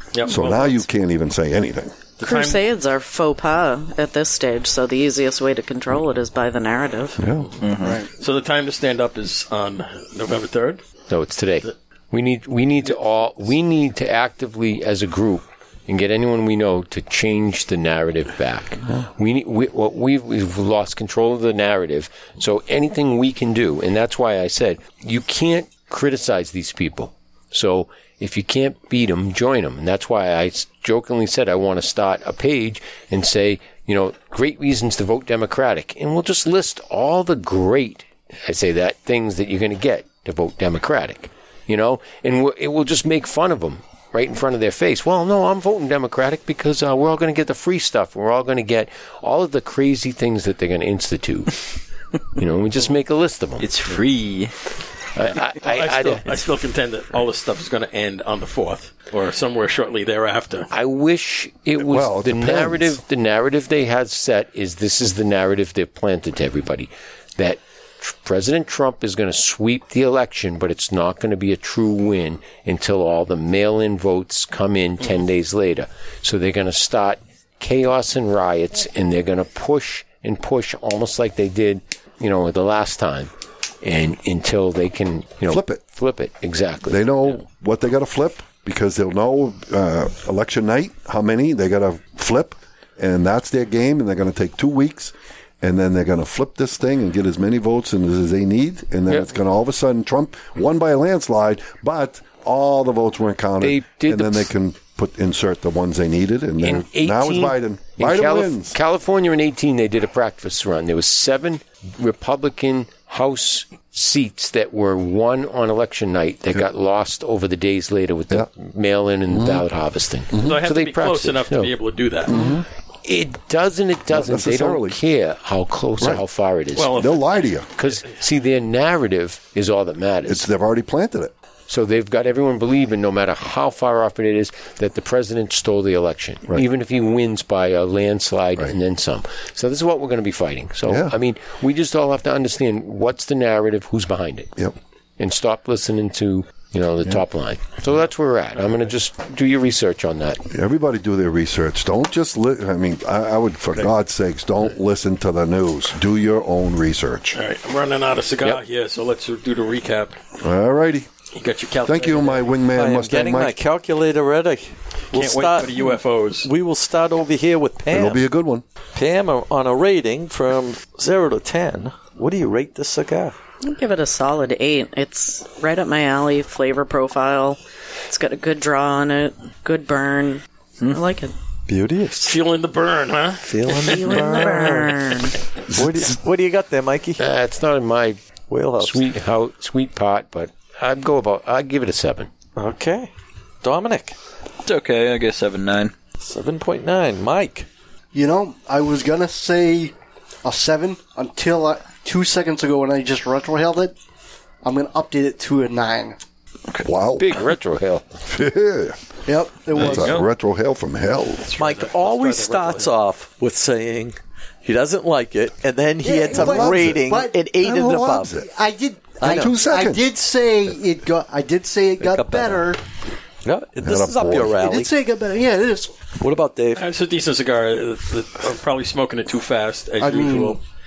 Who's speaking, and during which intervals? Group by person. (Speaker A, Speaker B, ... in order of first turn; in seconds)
Speaker A: 0.1-0.8, 2.2-2.6, 8.2-10.8, 55.6-60.7, 120.3-122.4, 126.8-128.2, 157.3-160.2, 161.3-162.5, 165.1-166.5, 182.2-184.2, 211.4-212.9, 226.8-230.6
Speaker B: 0.2-2.0, 7.2-7.5, 61.8-63.0, 85.5-85.8, 86.9-108.8, 119.3-119.7, 120.3-120.5, 122.3-122.7, 124.1-125.0, 126.9-127.7, 130.2-131.3, 140.8-141.2, 150.5-157.4, 160.4-161.1, 161.8-163.6, 167.9-168.6, 185.7-186.0, 206.8-207.4, 208.2-209.0, 209.7-211.5, 216.3-218.5, 219.2-220.1, 223.8-224.6
Speaker C: 2.2-7.2, 173.6-181.3, 183.7-185.3
Speaker D: 7.6-8.0, 53.6-54.5, 194.6-195.9, 209.8-210.3
Speaker E: 7.8-8.1, 198.1-203.9, 204.6-206.2, 209.2-210.1, 216.0-217.3, 218.4-222.8, 224.6-225.9, 230.0-230.6
Speaker F: 11.1-51.6, 52.4-53.7, 55.1-56.4, 60.7-83.3, 83.8-87.3, 99.1-99.3, 103.6-104.5, 106.6-121.8, 123.0-127.0, 127.8-130.5, 131.7-144.5, 145.2-150.4, 187.2-188.2, 188.8-192.3, 207.2-208.0
Speaker G: 162.7-165.9, 166.4-168.2, 168.9-173.3, 181.7-182.4, 183.4-185.0, 185.7-187.2, 188.5-189.1, 192.5-193.1, 193.6-194.2, 196.2-197.7, 211.4-218.4, 219.2-219.5, 222.0-222.7, 223.4-224.9, 226.2-226.8